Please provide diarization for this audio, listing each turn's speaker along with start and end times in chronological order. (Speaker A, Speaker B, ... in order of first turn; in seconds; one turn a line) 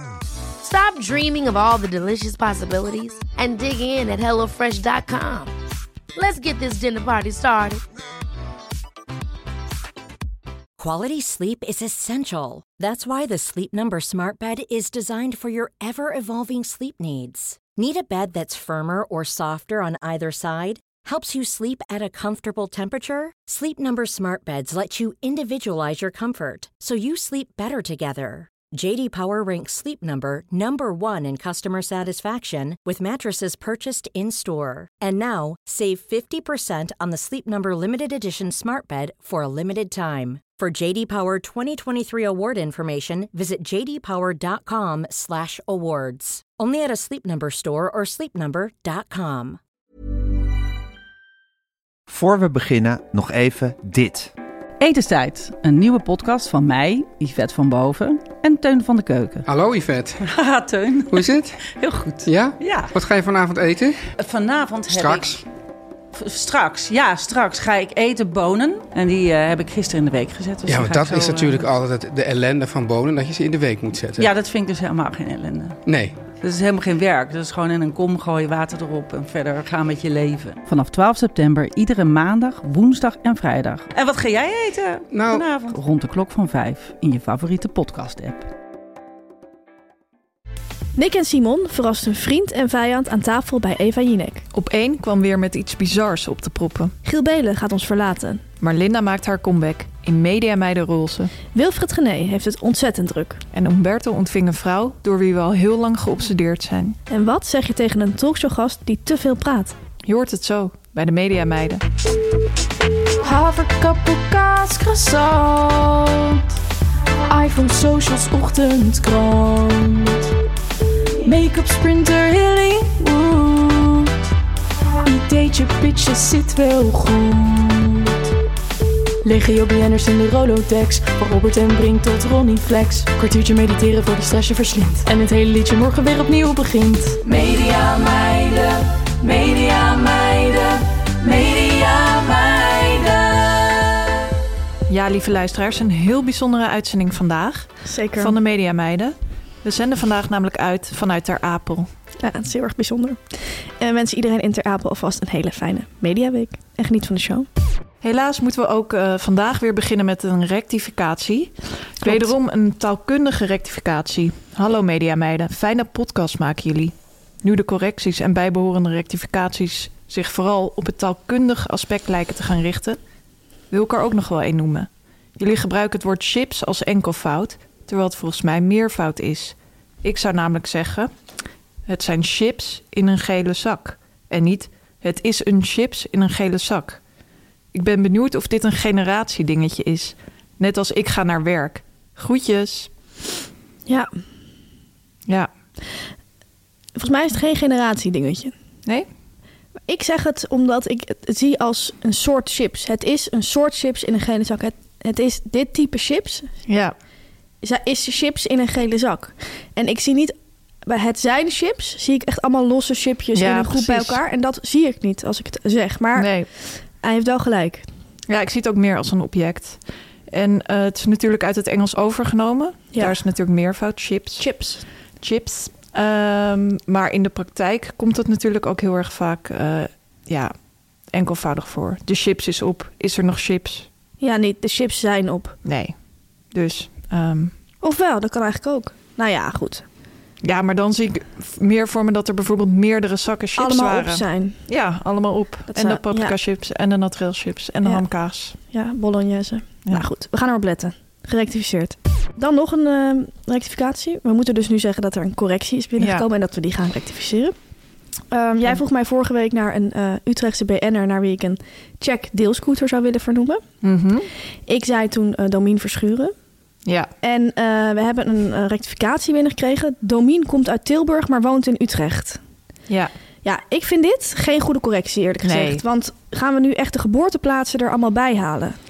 Speaker A: 0.6-5.5
Speaker A: 6.1-7.8
Speaker B: 10.8-49.6
Speaker C: 52.1-54.3
Speaker D: 54.8-59.5
Speaker E: 59.5-60.2
Speaker D: 60.2-62.9
Speaker E: 61.1-61.6
Speaker E: 62.2-64.0
Speaker D: 64.2-65.4
Speaker E: 64.9-65.4
Speaker D: 66.1-71.7
Speaker E: 70.7-74.3
Speaker D: 74.2-75.8
Speaker E: 75.8-76.2
Speaker D: 76.4-88.5
Speaker E: 85.1-85.4
Speaker F: 91.0-94.5
Speaker G: 94.5-96.9
Speaker F: 97.0-98.4
Speaker G: 98.6-101.3
Speaker F: 101.5-103.4
Speaker G: 103.5-107.0
Speaker F: 107.1-109.7
Speaker G: 110.0-111.8
Speaker H: 113.2-116.4
Speaker H: 117.3-120.3
Speaker H: 121.2-124.2
Speaker H: 125.0-128.2
Speaker H: 129.2-143.8
Speaker G: 144.9-151.9
Speaker F: 147.8-148.3
Speaker F: 152.2-153.2
Speaker F: 153.8-157.5
Speaker G: 158.0-173.0
Speaker F: 162.0-162.3
Speaker G: 173.7-181.1
Speaker G: 181.9-187.0
Speaker G: 187.7-192.9
Speaker F: 196.9-198.5
Speaker F: 199.9-206.5
Speaker G: 206.7-206.9
Speaker F: 207.6-210.3
Speaker F: 210.8-216.3
Speaker G: 213.3-214.2
Speaker G: 216.2-216.5
Speaker F: 217.0-217.8
Speaker G: 218.3-224.4
Speaker F: 224.4-224.8
Speaker G: 225.2-230.5
Speaker G: 231.1-233.9
Speaker F: 234.2-235.6
Speaker G: 235.6-235.9
Speaker G: 236.5-237.5
Speaker F: 237.8-239.8
Speaker G: 240.4-248.6
Speaker F: 243.6-244.6
Speaker F: 245.7-246.3
Speaker F: 248.7-257.5
Speaker G: 256.0-256.2
Speaker F: 258.3-263.6
Speaker G: 263.8-264.3
Speaker F: 264.7-266.3
Speaker G: 266.8-267.1
Speaker F: 267.2-272.4
Speaker F: 273.4-278.8
Speaker G: 275.4-275.8